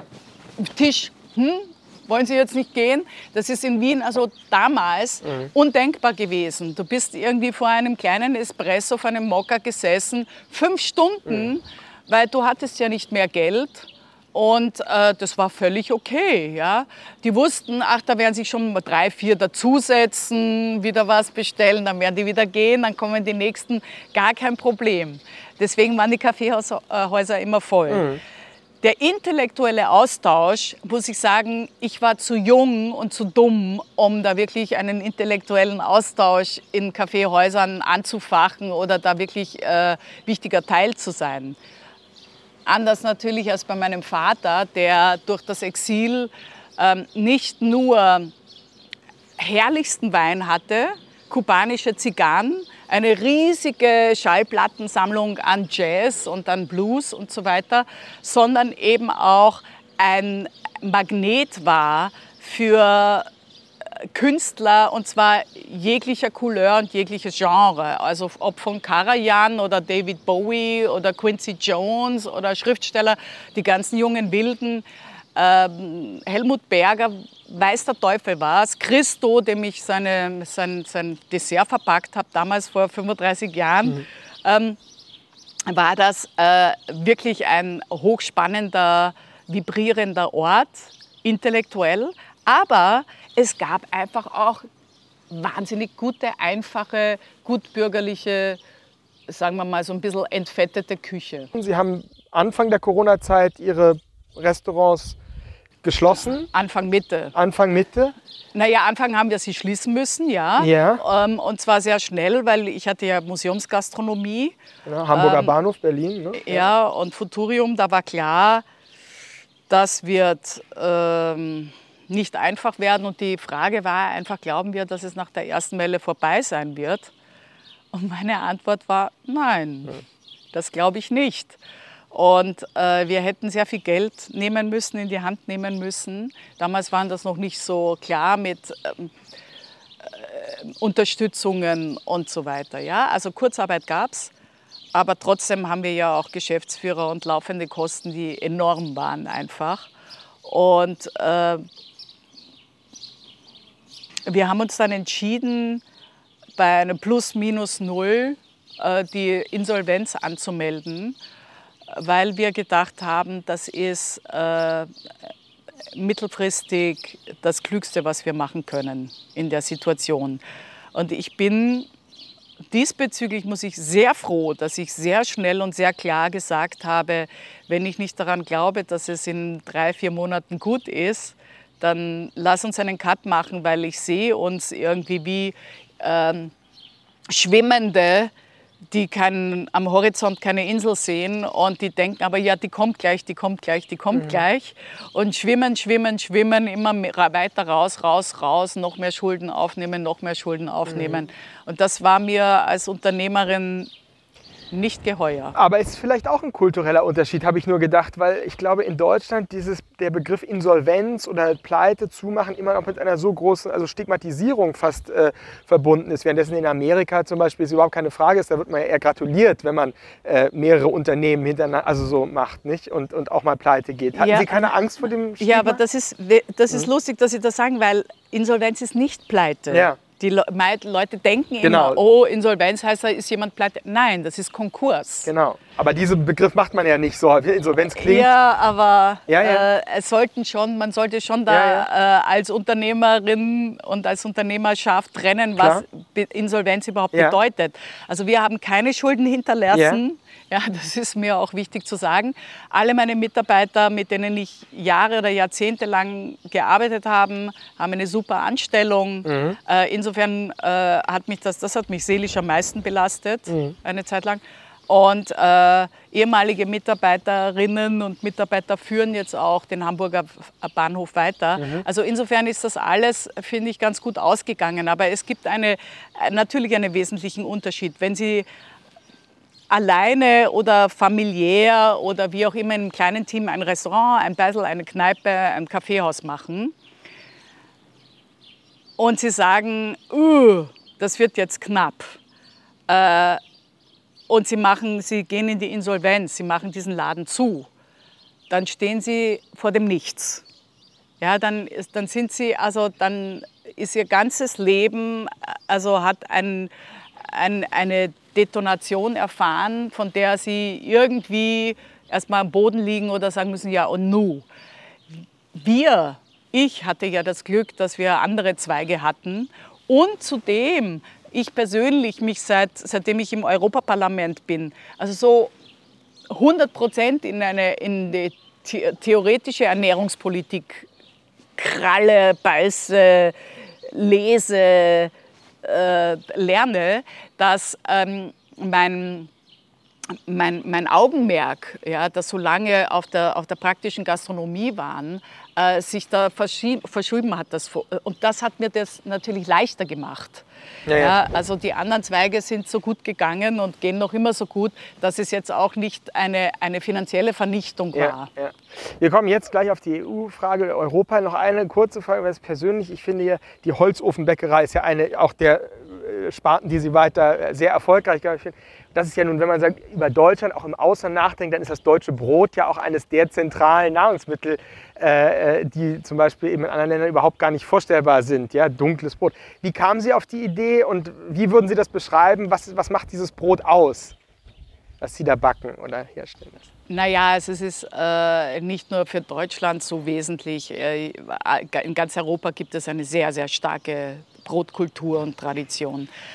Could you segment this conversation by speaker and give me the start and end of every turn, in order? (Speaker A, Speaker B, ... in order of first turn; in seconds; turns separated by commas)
Speaker A: 0.6-28.1, Speaker B: 27.9-28.2, Speaker A: 28.8-41.6, Speaker A: 42.6-48.3, Speaker A: 49.4-63.2, Speaker A: 64.0-84.8, Speaker A: 85.7-94.6, Speaker A: 95.3-98.6, Speaker A: 99.3-101.5, Speaker B: 101.5-105.2, Speaker B: 105.8-106.5, Speaker A: 106.5-107.3, Speaker B: 107.3-108.1, Speaker A: 108.5-114.6, Speaker B: 110.6-111.0, Speaker B: 114.8-116.7, Speaker A: 115.1-115.5, Speaker A: 116.3-118.6, Speaker A: 119.7-127.1, Speaker A: 127.9-131.6, Speaker A: 132.1-139.1, Speaker A: 140.0-144.3, Speaker A: 144.9-149.9, Speaker A: 150.4-151.6, Speaker A: 154.3-155.8, Speaker A: 156.6-161.2, Speaker A: 161.9-164.9, Speaker A: 165.9-170.4, Speaker A: 170.9-171.9, Speaker A: 172.7-186.5, Speaker A: 187.3-188.3, Speaker A: 188.9-203.9, Speaker B: 200.9-201.2, Speaker A: 204.7-205.6, Speaker B: 205.5-225.8, Speaker A: 224.2-224.7, Speaker A: 225.4-235.3, Speaker B: 229.7-230.0, Speaker B: 231.6-232.0, Speaker B: 235.2-238.3, Speaker A: 237.9-278.4, Speaker B: 239.3-239.7, Speaker B: 241.5-241.8, Speaker B: 245.6-245.8, Speaker B: 249.7-250.0, Speaker B: 259.2-259.6, Speaker B: 263.5-263.7, Speaker B: 271.6-271.8, Speaker A: 279.7-286.7, Speaker A: 289.0-292.2, Speaker A: 292.9-293.4, Speaker A: 294.3-297.7, Speaker A: 298.5-300.4, Speaker A: 301.2-306.7, Speaker A: 307.2-314.4, Speaker A: 315.5-325.5, Speaker A: 326.3-330.9, Speaker A: 331.6-333.4, Speaker A: 333.9-335.1, Speaker A: 335.6-339.3, Speaker A: 340.3-358.3, Speaker B: 350.9-351.2, Speaker B: 357.9-384.1, Speaker B: 385.0-386.6, Speaker A: 386.9-396.1